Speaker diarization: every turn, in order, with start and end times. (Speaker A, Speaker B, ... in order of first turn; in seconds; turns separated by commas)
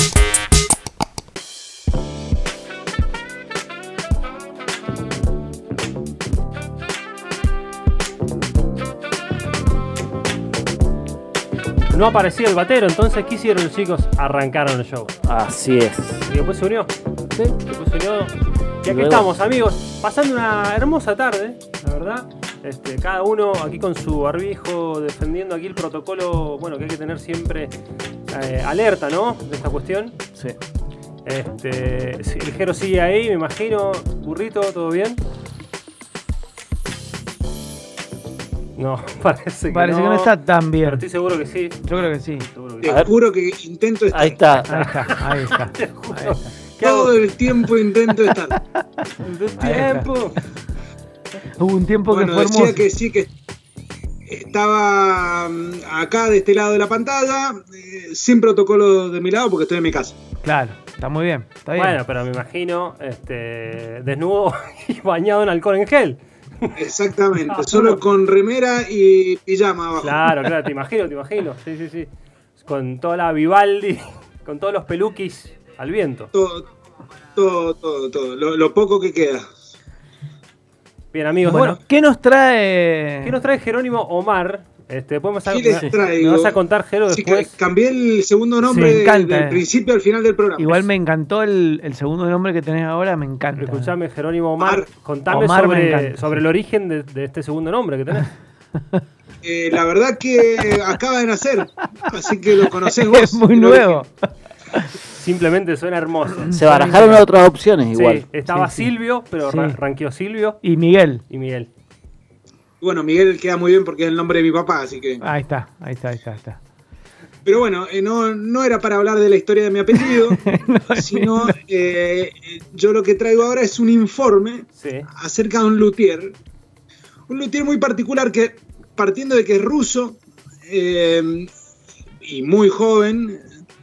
Speaker A: 11.9-15.1, Speaker B: 15.2-16.3, Speaker A: 16.3-16.9, Speaker A: 17.6-27.7, Speaker B: 18.9-19.3, Speaker A: 28.3-30.2, Speaker A: 31.2-35.2, Speaker A: 38.8-43.1, Speaker C: 39.7-41.0, Speaker C: 41.8-42.5, Speaker D: 42.8-44.7, Speaker B: 42.9-43.1, Speaker B: 44.1-44.7, Speaker C: 44.7-46.4, Speaker A: 44.8-47.2, Speaker D: 46.8-48.6, Speaker C: 47.5-48.8, Speaker A: 49.2-50.4, Speaker C: 49.6-50.4, Speaker C: 51.6-52.9, Speaker D: 52.1-53.3, Speaker D: 54.3-60.2, Speaker C: 60.4-62.0, Speaker A: 61.8-66.7, Speaker D: 66.8-70.3, Speaker A: 67.4-68.0, Speaker A: 70.0-76.3, Speaker D: 76.3-76.7, Speaker D: 77.4-79.5, Speaker A: 81.1-81.8, Speaker C: 81.4-83.4, Speaker A: 83.2-87.5, Speaker D: 85.5-86.6, Speaker D: 87.1-90.9, Speaker A: 88.6-89.0, Speaker C: 88.8-89.7, Speaker C: 90.6-94.0, Speaker A: 93.6-98.3, Speaker D: 94.6-94.9, Speaker C: 95.3-96.5, Speaker D: 99.4-104.1, Speaker C: 102.1-104.9, Speaker A: 105.1-107.2, Speaker C: 106.3-107.0, Speaker B: 106.5-108.2, Speaker A: 107.9-110.6, Speaker C: 108.5-109.8, Speaker C: 110.6-111.2, Speaker A: 111.3-111.7, Speaker D: 112.8-115.2, Speaker C: 115.2-116.6, Speaker D: 117.5-120.4, Speaker C: 119.9-121.6, Speaker D: 120.9-126.3, Speaker A: 124.8-125.1, Speaker D: 127.3-131.5, Speaker D: 132.2-133.4